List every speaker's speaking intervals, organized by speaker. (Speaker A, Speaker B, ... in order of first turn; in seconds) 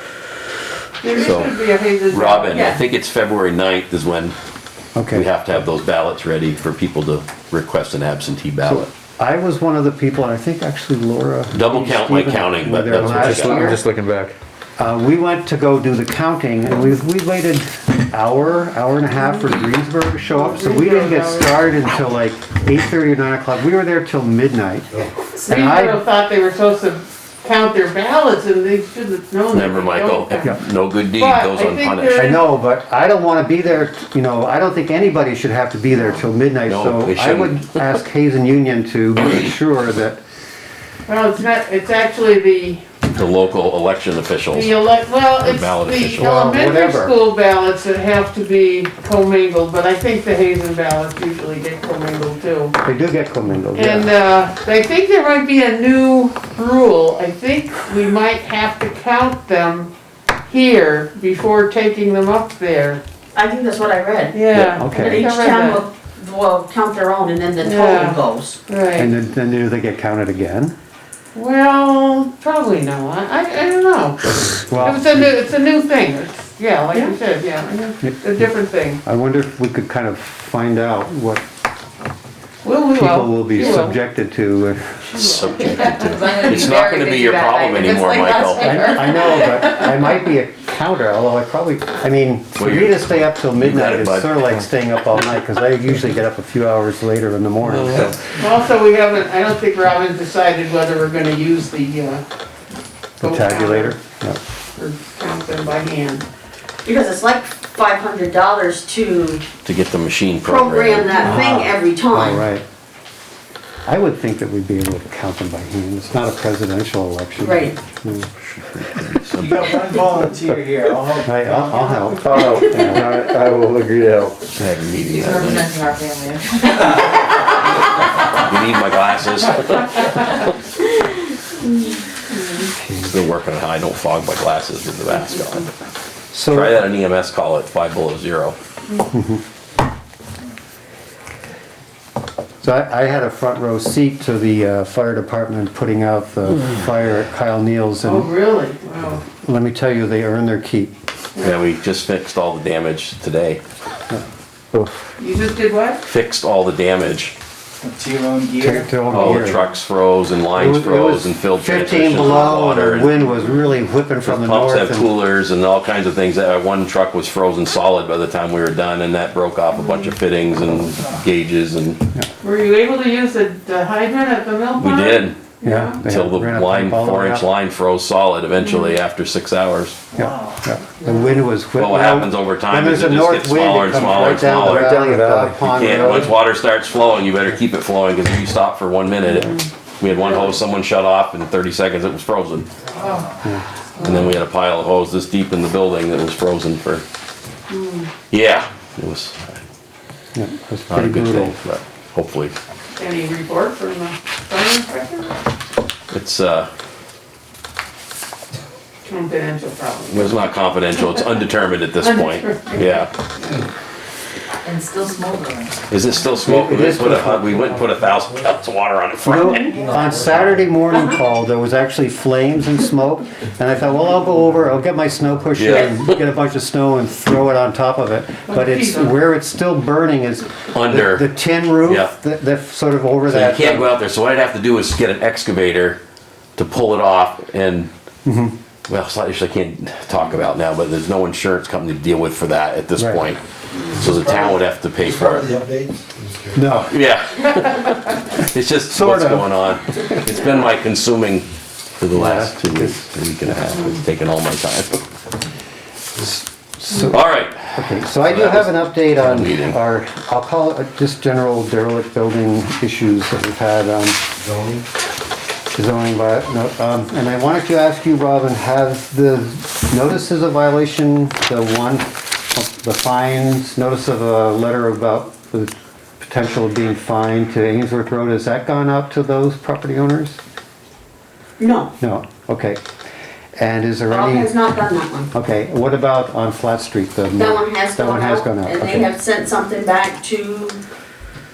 Speaker A: 1.0-2.7, 19.1-19.6, 20.3-21.6, 25.4-30.6, 31.1-32.5, 41.1-42.9, 44.5-52.8, 53.7-59.9, 60.5-63.0, 64.3-65.8, 67.6-69.1, 71.3-79.0, 82.6-84.0, 85.1-85.9, 88.4-89.9, 98.4-102.2, 103.2-104.0, 104.8-106.2, 132.3-132.7, 148.0-149.2, 155.2-156.0, 172.4-176.0, 178.6-178.9, 181.0-181.4, 189.3-189.6, 193.0-193.4, 194.0-194.3, 197.7-198.1, 202.9-205.3, 209.1-210.4, 212.0-213.1, 228.5-229.1
Speaker B: 1.1-4.3, 5.1-8.9, 11.5-13.8, 29.5-32.4, 36.7-37.8, 43.1-44.7, 45.4-46.3, 85.1-89.0, 92.5-94.5, 109.6-111.2, 118.4-119.9, 124.5-125.7, 128.2-130.4, 132.9-135.7, 136.5-138.6, 151.4-153.6, 156.0-157.3, 159.1-163.1, 164.2-172.0, 174.8-175.4, 176.0-180.0, 181.7-185.1, 185.7-192.7, 194.0-197.0, 198.3-199.6, 200.9-202.6, 206.1-206.7, 210.1-213.1, 215.9-219.9, 225.5-226.0, 230.7-231.3, 231.8-232.1, 233.3-236.0, 236.6-237.9, 238.9-245.6, 246.9-251.5, 252.0-255.0, 257.1-259.8
Speaker C: 2.5-2.8, 63.3-68.6, 86.5-86.8, 106.8-109.5, 110.4-112.4, 117.4-117.8, 281.6-281.9, 284.1-285.3, 287.3-290.8
Speaker D: 4.9-5.3, 8.6-13.8, 14.8-26.0, 32.1-40.2, 46.2-47.1, 52.8-54.1, 64.5-65.2, 69.0-70.8, 74.5-75.3, 79.0-81.4, 82.9-85.0, 88.6-98.2, 103.2-104.4, 111.2-112.6, 113.8-118.3, 121.2-123.3, 132.8-133.1, 136.3-136.8, 139.1-139.4, 142.6-148.3, 149.2-150.9, 158.6-159.6, 160.5-165.1, 175.6-177.4, 180.1-186.3, 200.3-201.6, 216.4-217.7, 219.2-233.9, 238.2-238.5, 243.0-243.2, 246.5-246.9, 248.9-249.5, 252.1-253.1, 256.2-264.2, 265.7-280.4, 282.0-282.8, 283.6-284.5, 285.3-289.1
Speaker E: 13.0-14.3, 97.6-98.1, 122.2-124.5, 184.3-186.2, 219.7-220.8, 244.0-246.7, 264.4-264.8
Speaker F: 85.9-88.3, 125.0-127.1, 214.6-215.9
Speaker G: 119.3-122.3, 157.8-159.4, 180.2-180.6